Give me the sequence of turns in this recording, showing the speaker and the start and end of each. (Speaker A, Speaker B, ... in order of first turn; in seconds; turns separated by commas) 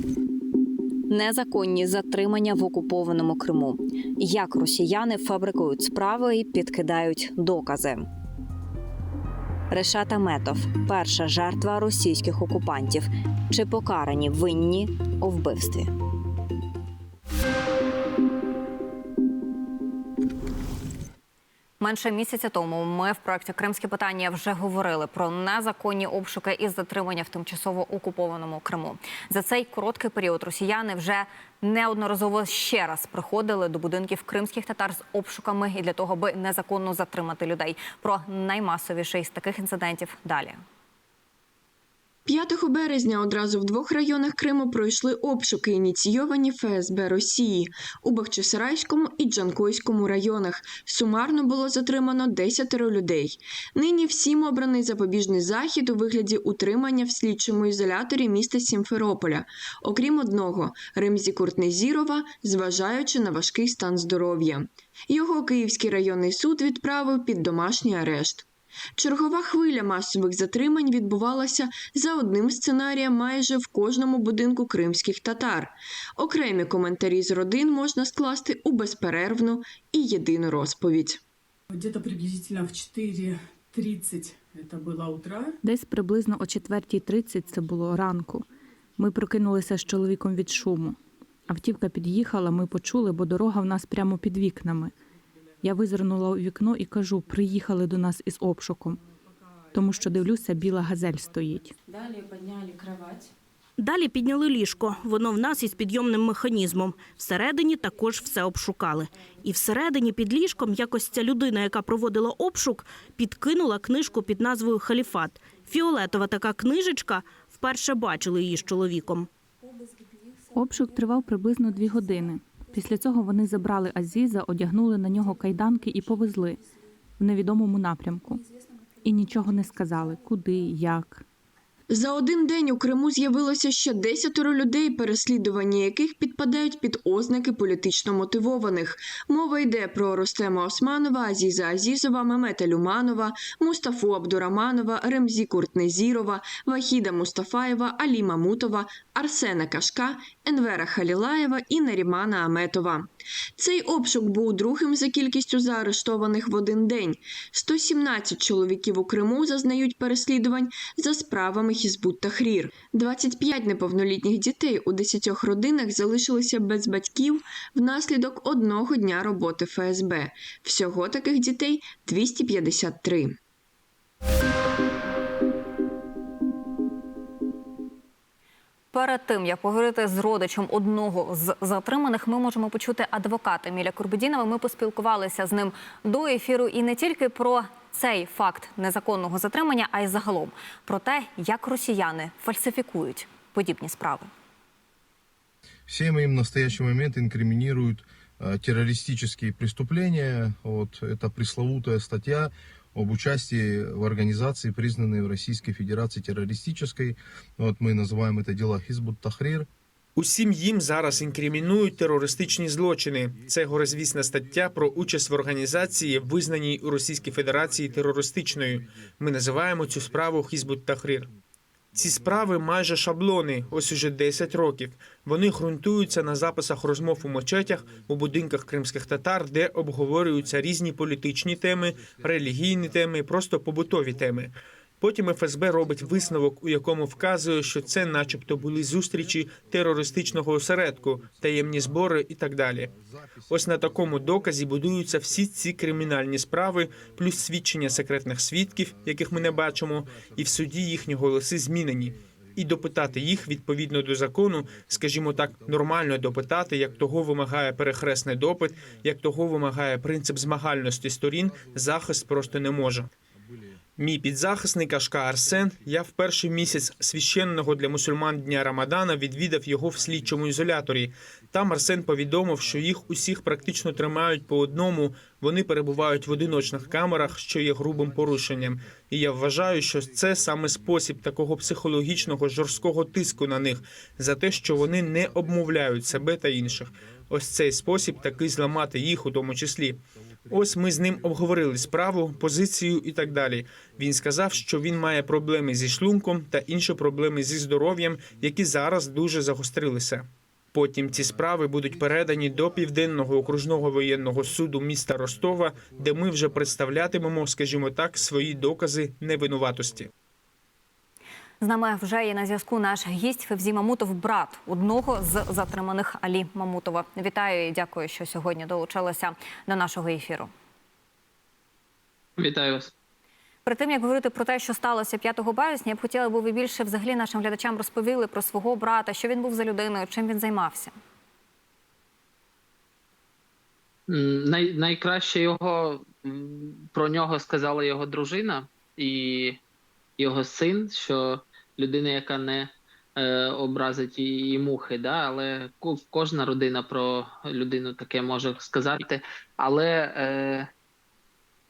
Speaker A: 1.1-8.0, Speaker A: 9.7-15.9, Speaker A: 21.8-40.6, Speaker B: 42.3-68.5, Speaker B: 69.0-81.2, Speaker C: 81.7-85.6, Speaker D: 85.6-88.5, Speaker D: 89.0-95.0, Speaker D: 95.6-99.0, Speaker D: 99.7-101.8, Speaker E: 103.8-119.3, Speaker D: 120.5-126.6, Speaker D: 127.2-128.4, Speaker D: 129.0-131.2, Speaker B: 131.9-173.4, Speaker A: 178.9-194.3, Speaker F: 195.9-209.7, Speaker G: 210.2-221.3, Speaker G: 221.9-242.9, Speaker G: 243.5-263.1, Speaker F: 243.5-243.9, Speaker G: 264.0-310.1, Speaker F: 282.3-283.7, Speaker F: 285.7-286.9, Speaker F: 288.1-288.6, Speaker A: 311.6-320.5, Speaker H: 322.4-322.9, Speaker A: 323.6-331.0, Speaker H: 334.1-339.6, Speaker H: 340.2-350.7